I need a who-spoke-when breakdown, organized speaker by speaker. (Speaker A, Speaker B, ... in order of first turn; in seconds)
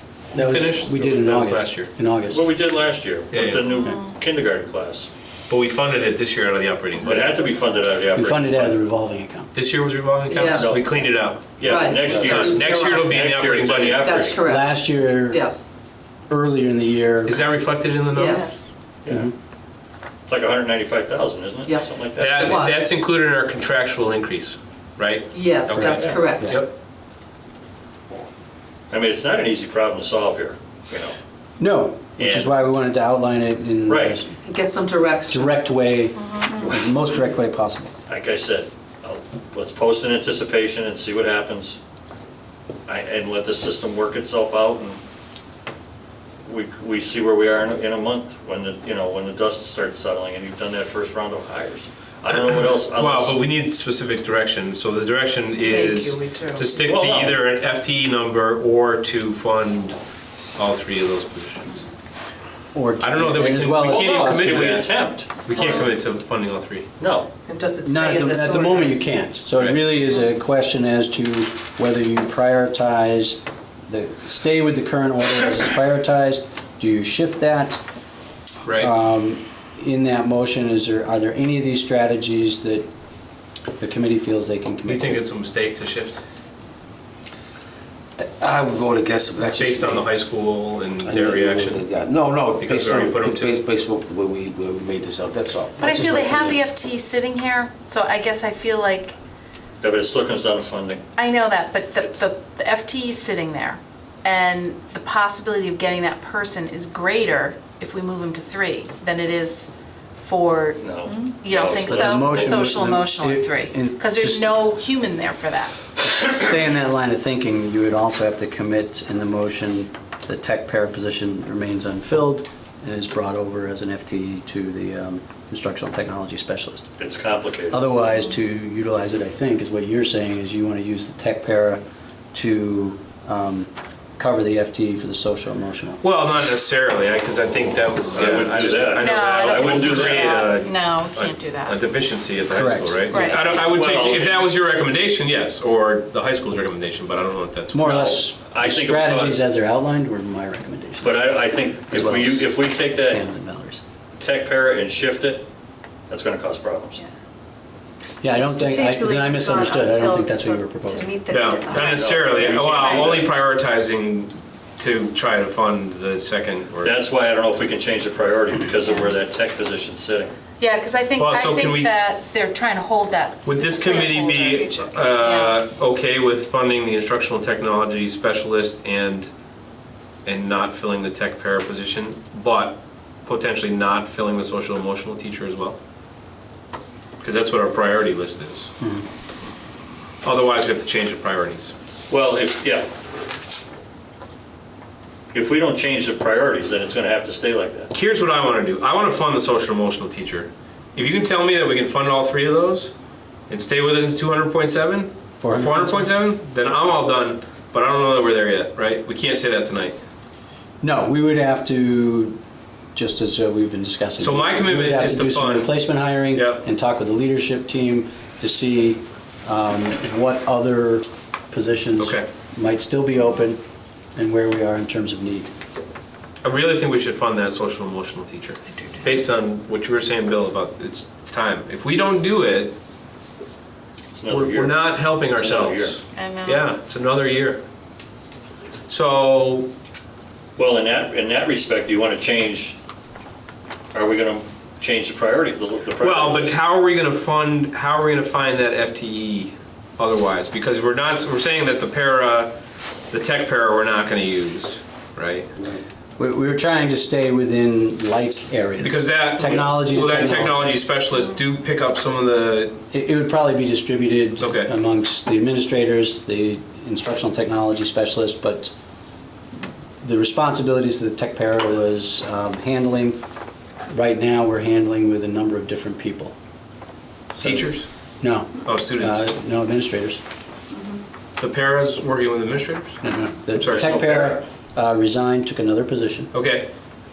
Speaker A: 0.3-2.4, 8.1-9.5, 12.1-12.3, 14.4-15.5, 16.3-17.4, 19.1-19.3, 25.7-26.6, 31.6-34.3, 35.3-37.9, 62.7-64.8, 67.8-77.8, 78.8-82.9, 83.8-85.2, 111.9-114.6, 116.0-126.9, 127.7-131.8, 132.3-136.0, 142.5-143.2, 147.7-153.8, 158.2-161.2, 188.8-189.1, 205.4-206.1, 210.8-212.4, 212.9-223.6, 224.2-225.5, 256.2-260.7, 262.9-268.7, 270.0-273.2, 273.9-276.4, 277.4-277.7, 278.2-280.2, 283.0-286.3
Speaker B: 0.4-1.9, 3.3-3.6, 5.5-7.5, 8.2-8.8, 9.6-11.6, 12.2-14.3, 17.3-18.6, 22.2-26.7, 52.9-60.0, 60.5-61.8, 63.0-66.9, 78.7-78.9, 84.9-86.2, 89.6-91.8, 92.6-93.6, 136.0-148.1, 161.3-166.9, 171.2-171.9, 173.4-179.3, 180.2-185.8, 187.2-188.7, 190.2-191.7, 197.9-202.9, 203.5-210.0, 214.2-215.7, 216.3-216.6, 222.0-222.3, 226.4-232.8, 234.3-237.6, 238.9-239.7, 246.0-252.6, 253.1-255.5, 258.8-262.8, 264.4-264.7, 277.4-277.9, 278.6-279.3, 281.4-283.0, 286.3-286.7
Speaker C: 2.3-5.1, 7.0-8.3, 10.5-11.0, 11.6-14.4, 19.1-19.3, 20.3-22.4, 25.8-26.3, 28.9-31.2, 32.2-32.5, 33.9-34.2, 38.1-41.8, 42.9-45.0, 46.5-53.4, 56.9-57.4, 63.9-65.5, 67.0-67.3, 99.8-101.0, 110.8-112.8, 127.0-127.8, 138.1-140.5, 143.3-144.5, 147.8-149.5, 151.0-153.2, 154.2-155.5, 156.1-157.0, 161.7-163.3, 166.8-170.3, 192.1-192.9, 195.3-197.9, 234.2-236.0, 240.6-242.8, 243.9-246.6, 283.7-284.4
Speaker D: 10.3-11.1, 11.6-15.7, 18.1-18.6, 21.6-22.9, 25.3-26.6, 34.4-35.6, 55.6-56.9, 67.5-69.0, 158.3-162.6, 174.2-174.6
Speaker E: 18.3-18.6, 95.8-99.2, 101.2-115.8, 138.9-141.8, 143.1-143.6, 170.6-175.6, 236.1-236.7
Speaker F: 88.2-90.1, 91.0-96.6